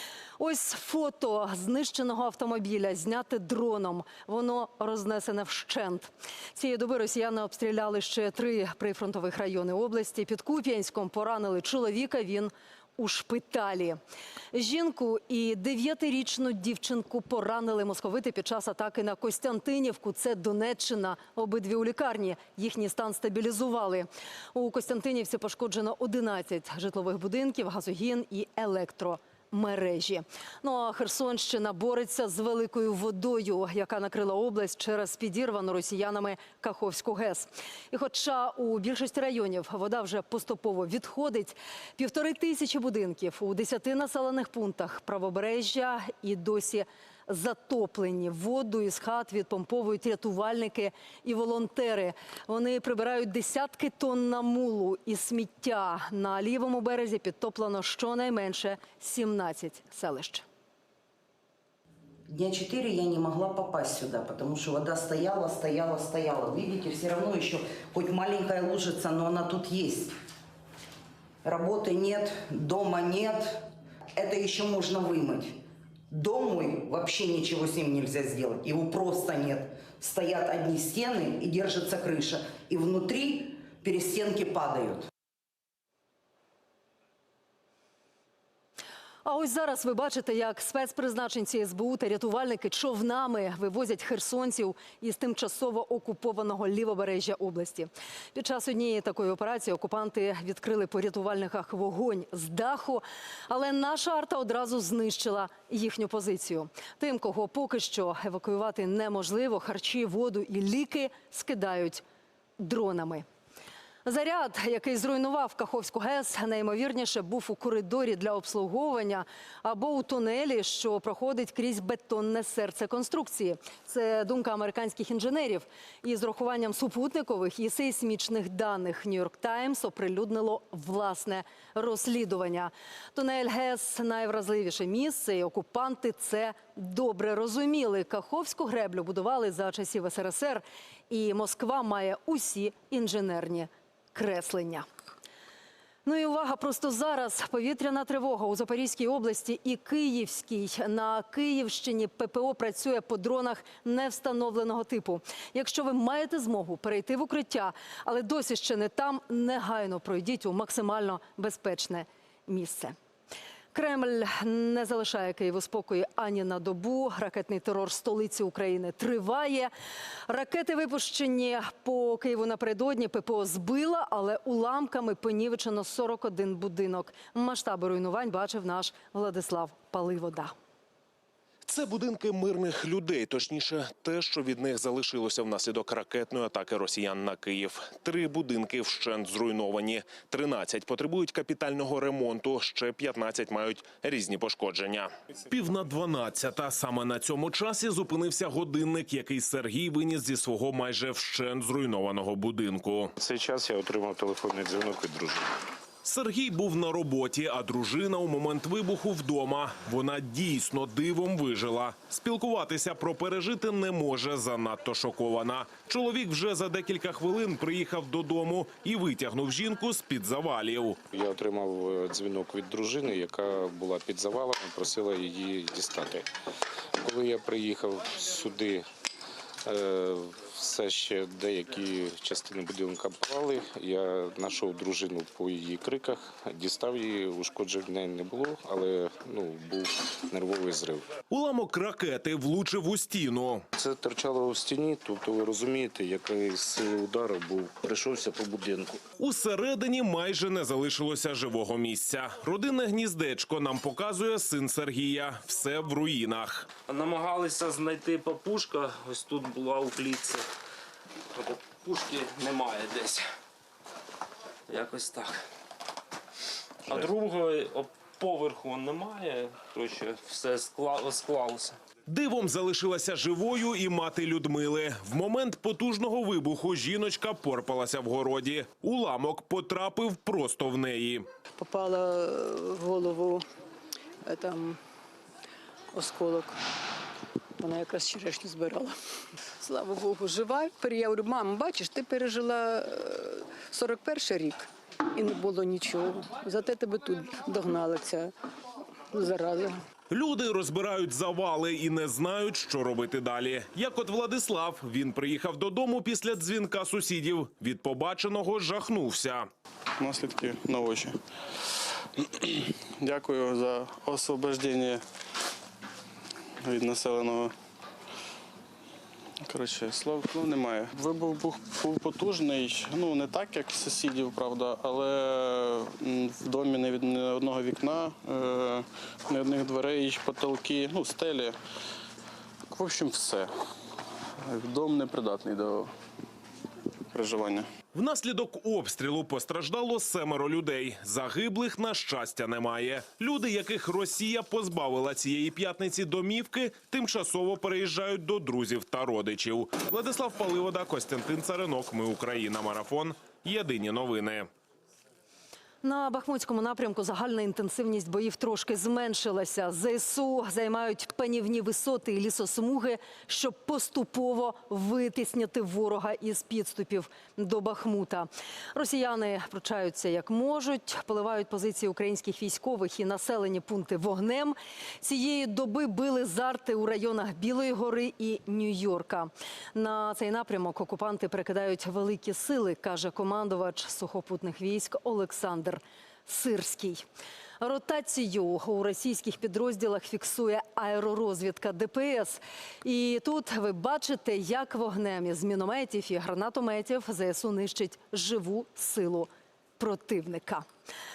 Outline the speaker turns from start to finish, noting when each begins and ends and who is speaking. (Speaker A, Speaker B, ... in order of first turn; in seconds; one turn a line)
Speaker A: 0.4-14.0
Speaker A: 14.5-60.5
Speaker B: 62.3-70.1
Speaker B: 71.4-85.1
Speaker A: 89.2-112.0
Speaker A: 112.6-113.2
Speaker A: 114.0-144.9
Speaker A: 146.1-162.9
Speaker A: 163.7-169.7
Speaker A: 170.3-180.5
Speaker C: 181.7-203.1
Speaker D: 203.2-205.5
Speaker C: 206.1-221.0
Speaker D: 221.1-226.3
Speaker D: 227.0-228.9
Speaker D: 229.7-241.1
Speaker C: 241.3-243.6
Speaker D: 243.8-249.0
Speaker C: 249.2-256.7
Speaker E: 256.9-260.4
Speaker E: 261.4-263.2
Speaker E: 264.7-265.4
Speaker E: 266.9-271.8
Speaker C: 272.1-281.3
Speaker F: 281.6-283.4
Speaker F: 284.3-284.8
Speaker F: 285.9-286.6
Speaker F: 287.6-288.9
Speaker F: 289.6-298.3
Speaker F: 299.1-299.8
Speaker C: 300.1-309.5
Speaker G: 310.0-311.2
Speaker G: 312.2-315.0
Speaker G: 316.6-317.5
Speaker G: 319.4-331.6
Speaker G: 332.7-333.5
Speaker G: 334.4-335.9
Speaker G: 337.1-337.7
Speaker C: 337.9-354.5
Speaker A: 355.8-387.0
Speaker A: 387.6-399.3
Speaker A: 399.8-400.6